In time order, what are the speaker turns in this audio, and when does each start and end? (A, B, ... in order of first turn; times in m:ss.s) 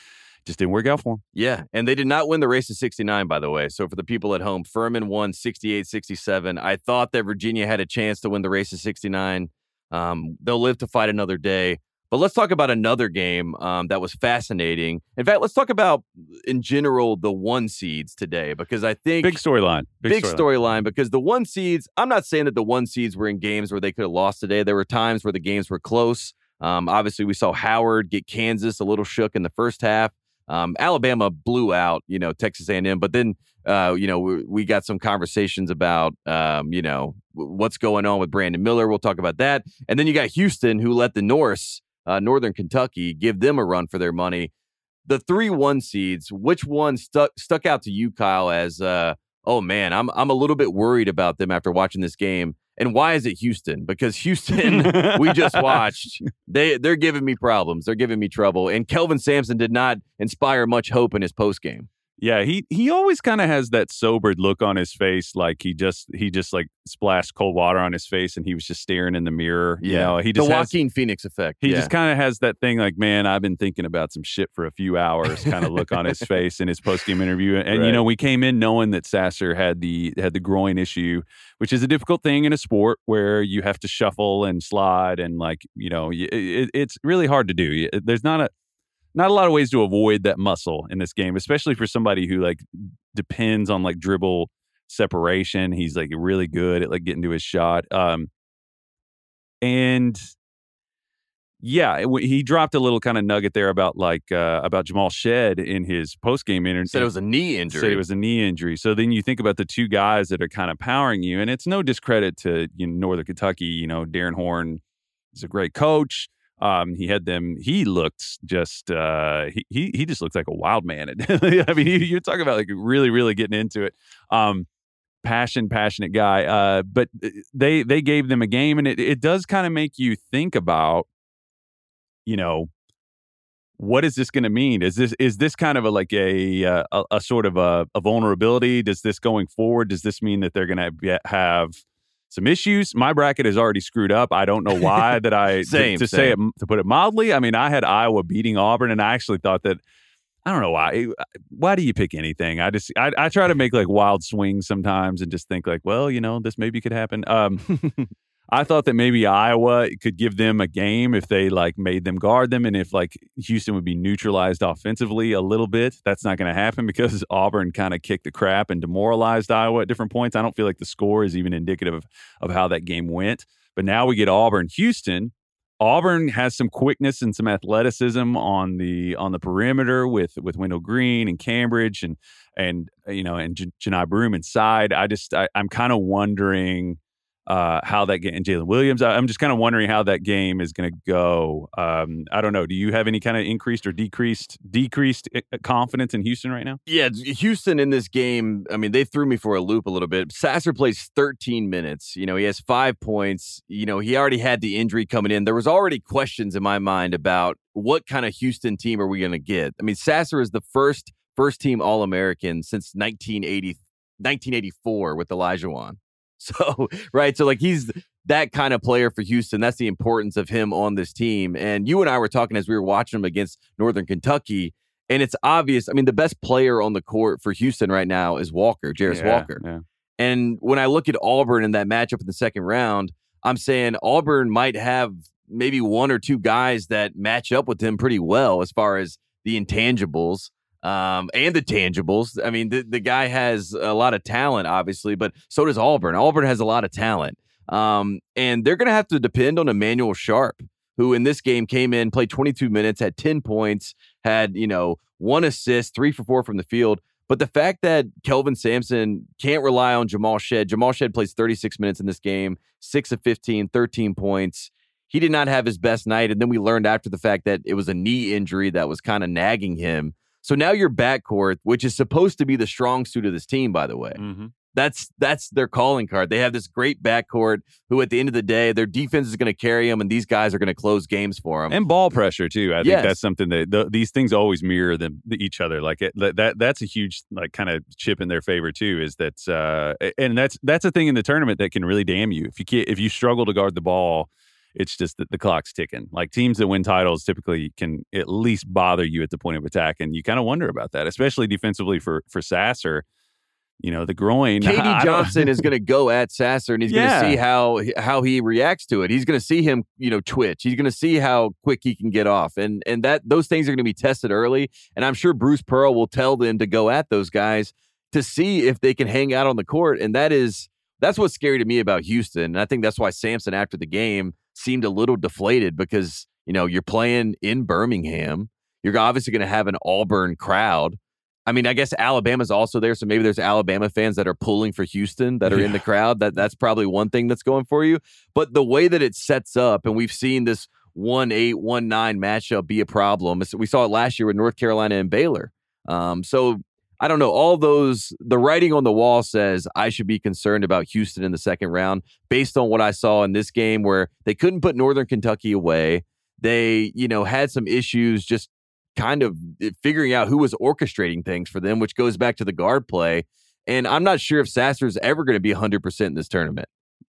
0:00.4-0:01.2 A
0:01.3-0:19.4 B
0:19.2-0:20.5 A
0:20.0-0:44.5 B
0:45.0-1:01.9 B
0:54.6-0:55.8 A
1:02.2-1:10.7 A
1:09.8-1:11.9 B
1:11.6-1:28.5 A
1:15.4-1:16.2 B
1:17.7-1:18.0 B
1:29.1-1:38.3 A
1:39.6-1:40.3 A
1:41.6-1:47.1 A
1:46.9-1:48.0 B
1:47.7-1:54.8 A
1:55.3-2:04.7 A
2:05.2-2:11.1 A
2:12.2-2:12.7 A
2:13.8-2:29.8 A
2:24.8-2:25.1 B
2:25.6-2:26.4 B
2:30.4-2:37.9 A
2:38.5-3:16.8 A
3:16.9-3:49.6 B
3:49.1-3:49.8 A
3:50.2-4:34.2 B
4:34.2-4:34.5 A
4:34.7-4:41.8 B
4:41.7-5:03.0 A
4:42.8-4:43.2 B
5:03.8-5:05.6 A
5:04.6-6:06.7 B
5:06.9-5:07.4 A
5:35.5-5:35.8 A